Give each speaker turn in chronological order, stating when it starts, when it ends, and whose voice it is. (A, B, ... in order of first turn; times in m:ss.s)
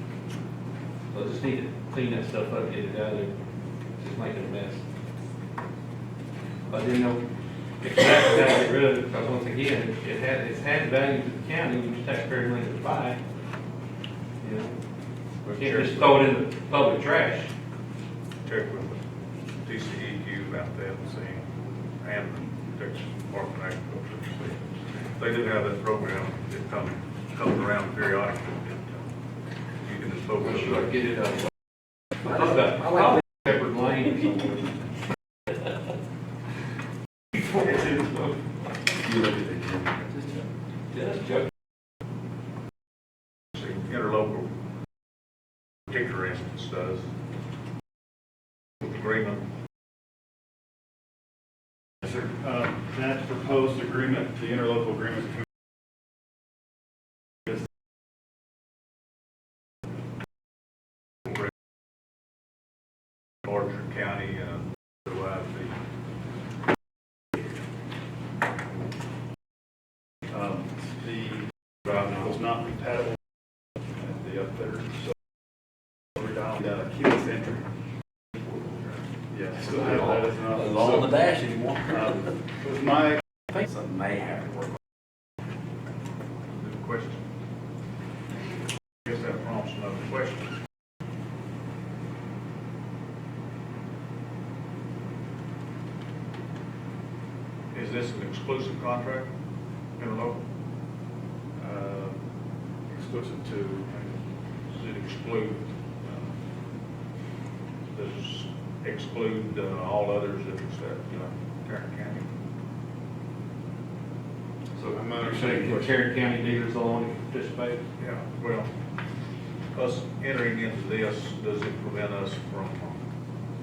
0:01.1-0:03.3 A
0:04.0-0:04.8 A
0:06.7-0:07.2 A
0:07.8-0:13.2 A
0:14.4-0:14.8 A
0:15.5-0:16.1 B
0:15.5-0:17.5 A
0:18.4-0:19.0 B
0:19.6-0:24.6 B
0:25.1-0:29.1 B
0:29.8-0:30.9 B
0:30.4-0:31.4 A
0:32.2-0:34.8 A
0:37.5-0:38.3 A
0:39.0-0:40.4 C
0:40.9-0:41.4 A
0:43.5-0:44.5 B
0:45.9-0:47.0 B
0:48.8-0:49.4 B
0:52.0-0:55.4 D
1:03.4-1:05.7 B
1:10.3-1:13.2 D
1:14.0-1:15.0 D
1:16.2-1:17.6 D
1:19.3-1:21.2 D
1:19.6-1:22.2 C
1:21.9-1:23.2 D
1:23.5-1:24.7 C
1:26.5-1:27.2 B
1:29.0-1:30.6 B
1:37.7-1:39.3 B
1:40.0-1:40.4 B
1:41.6-1:42.2 D
1:42.9-1:43.9 D
1:44.7-1:46.3 B
1:47.9-1:52.3 B
1:54.7-1:57.8 A
1:54.8-1:56.0 D
1:58.0-1:58.7 B
1:59.7-2:03.0 B